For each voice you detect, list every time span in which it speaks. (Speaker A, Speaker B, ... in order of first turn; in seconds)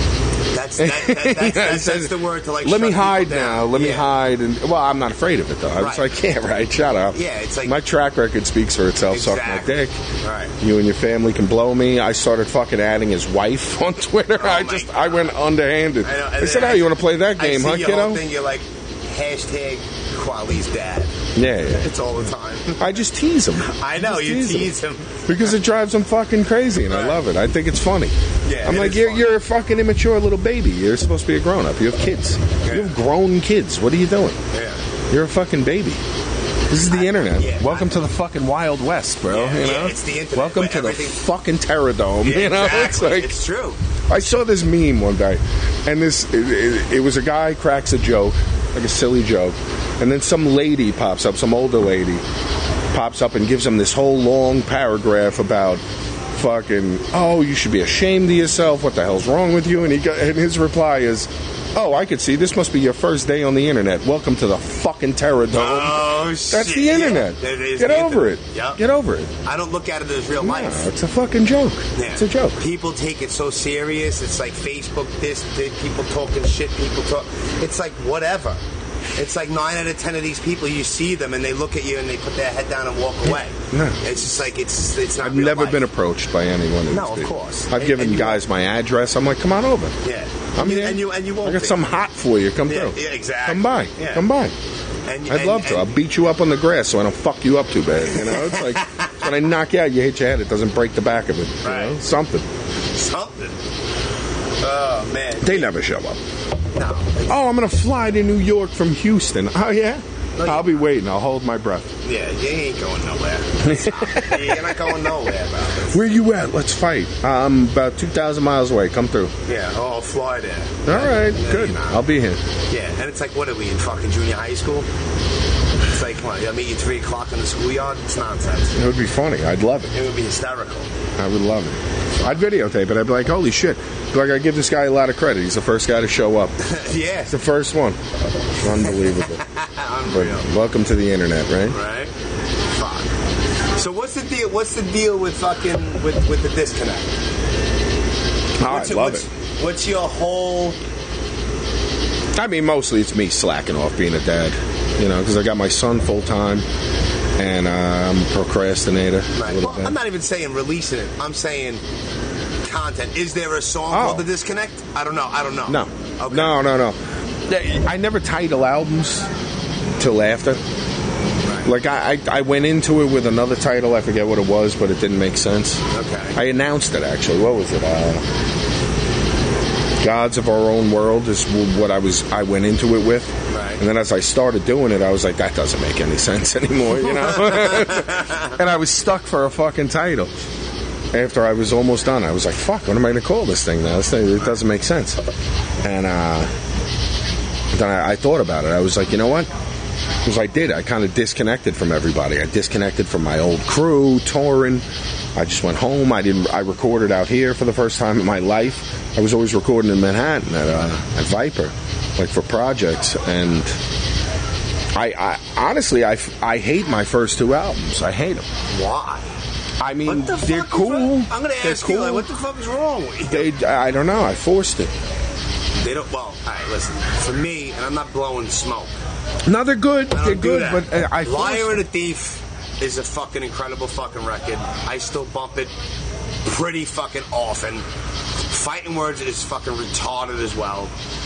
Speaker A: 0.5-4.1, 5.8-6.1, 7.1-7.8, 9.1-10.5, 14.4-15.3, 16.0-23.0, 23.6-25.5, 26.9-27.2, 28.4-29.4, 32.6-33.0, 34.5-34.8, 36.8-38.1, 39.3-41.2, 42.2-43.8, 65.5-68.8, 69.4-70.9, 72.0-78.6, 79.2-85.9, 86.9-88.4, 90.0-91.8, 92.7-94.2, 95.1-95.9, 98.1-99.3, 101.6-102.0, 102.9-103.6, 104.6-105.7, 106.8-107.4, 110.4-110.9, 112.0-116.0, 119.5-122.0, 122.7-124.9, 125.9-128.8, 129.9-130.9, 136.6-137.3, 138.7-140.5, 141.7-142.1, 142.7-143.1, 143.8-147.1, 148.7-150.8, 159.3-161.8, 162.6-166.6, 171.4-171.7, 175.9-176.4, 183.5-183.8, 187.1-188.6, 218.7-219.3, 220.1-223.5, 225.8-228.9, 230.1-235.7, 236.4-237.8, 238.5-240.9
Speaker B: 0.8-10.0, 10.6-18.2, 21.4-21.9, 22.8-24.7, 25.3-34.4, 35.1-36.0, 36.7-43.3, 44.1-52.2, 52.9-55.8, 56.3-69.3, 70.4-72.6, 83.7-84.0, 85.2-89.9, 90.6-94.5, 95.3-102.5, 105.4-106.2, 107.3-111.9, 113.6-114.9, 115.9-119.3, 120.9-122.4, 128.8-129.9, 131.2-136.5, 137.3-138.0, 138.6-139.4, 140.1-141.8, 148.6-149.2, 152.4-156.7, 157.4-160.0, 163.9-164.3, 165.7-169.3, 170.0-170.6, 171.6-175.8, 176.3-178.2, 180.0-190.3, 191.1-195.2, 195.8-196.5, 197.7-199.5, 200.2-204.8, 205.3-213.8, 214.9-218.5, 219.8-222.3, 223.3-224.9, 229.4-231.8